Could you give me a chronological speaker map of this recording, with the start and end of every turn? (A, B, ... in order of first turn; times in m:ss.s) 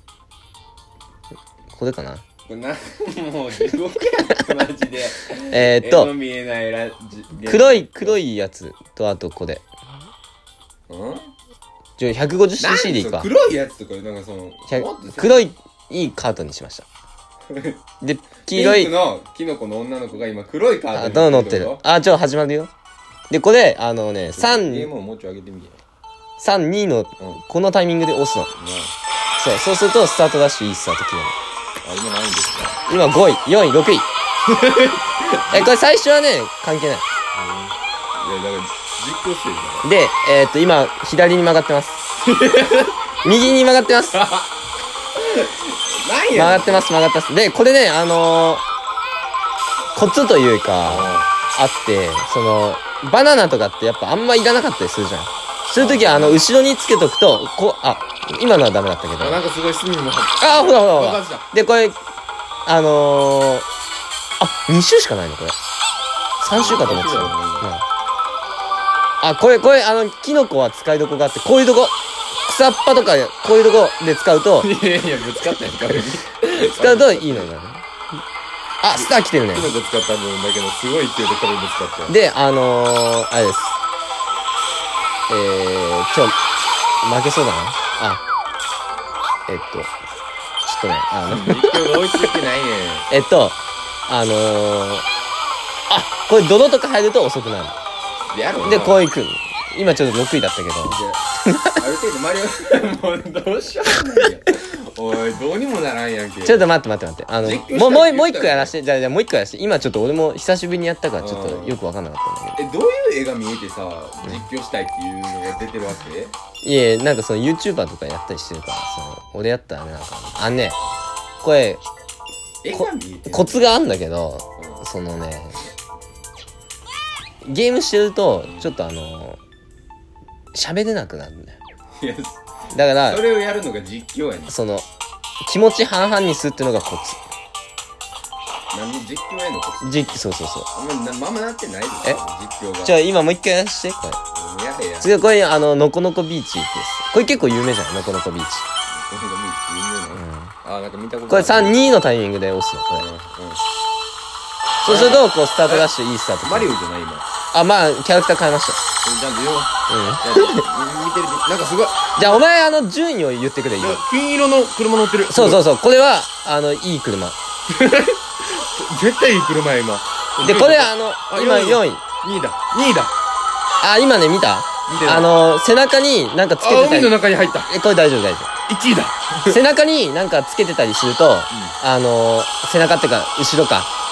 0:01.7-0:02.2 A
0:02.4-0:08.2 B
0:05.5-0:06.1 A
0:07.4-0:09.6 A
0:10.9-0:11.3 B
0:12.0-0:13.3 A
0:12.6-0:15.5 B
0:14.7-0:16.8 A
0:17.5-0:17.8 B
0:18.0-0:18.9 A
0:18.4-0:21.8 B
0:20.9-0:22.7 A
0:23.3-0:24.9 A
0:24.3-0:25.8 B
0:26.4-0:28.5 A
0:28.5-0:28.9 B
0:29.4-0:31.4 A
0:31.8-0:32.8 B
0:32.9-0:34.1 A
0:34.5-0:35.7 B
0:35.5-0:37.0 A
0:37.3-0:39.9 B
0:39.8-0:42.1 A
0:42.2-0:43.0 B
0:43.2-0:44.2 A
0:44.1-0:44.5 B
0:45.2-0:46.9 B
0:46.3-0:48.6 A
0:49.9-0:59.4 A
0:50.8-0:51.3 B
0:55.8-0:56.4 B
0:59.2-1:01.5 B
1:00.4-1:02.0 A
1:02.6-1:03.7 A
1:04.4-1:05.6 A
1:06.4-1:07.8 A
1:06.5-1:07.7 B
1:09.2-1:14.7 A
1:14.6-1:17.5 B
1:16.5-1:17.8 A
1:18.8-1:19.7 A
1:18.9-1:22.2 B
1:22.1-1:23.8 A
1:25.3-1:26.4 A
1:27.0-1:28.2 A
1:29.5-1:29.9 A
1:30.6-1:32.3 A
1:31.3-1:33.1 B
1:33.1-1:35.0 A
1:35.9-1:37.8 A
1:38.3-1:39.0 B
1:38.6-1:41.8 A
1:40.8-1:41.2 B
1:41.8-1:46.7 B
1:46.4-1:52.6 A
1:47.4-1:48.7 B
1:51.2-1:51.8 B
1:52.6-1:56.3 B
1:56.6-2:00.8 A
2:01.4-2:01.8 A
2:02.6-2:03.8 B
2:02.7-2:05.6 A
2:04.6-2:04.8 B
2:07.4-2:09.4 A
2:08.4-2:08.7 B
2:10.5-2:11.6 A
2:12.0-2:12.4 B
2:12.7-2:13.2 A
2:13.0-2:14.6 B
2:14.5-2:14.8 A
2:15.4-2:17.2 A
2:18.7-2:23.0 B
2:19.8-2:20.7 A
2:22.8-2:24.2 A
2:24.3-2:25.1 B
2:25.0-2:28.6 A
2:28.9-2:31.9 B
2:30.1-2:30.5 A
2:31.3-2:33.1 A
2:33.0-2:33.6 B
2:34.8-2:36.7 A
2:34.8-2:37.3 B
2:37.5-2:38.8 A
2:39.0-2:39.7 B
2:39.9-2:40.6 A
2:40.2-2:42.4 B
2:42.2-2:44.0 A
2:43.8-2:45.6 B
2:45.3-2:47.4 A
2:47.7-2:53.1 B
2:50.4-2:52.0 A
2:53.8-2:58.5 A
2:54.9-2:55.3 B
2:56.6-2:57.7 B
2:58.7-2:59.6 B
2:59.4-3:03.9 A
3:01.5-3:01.8 B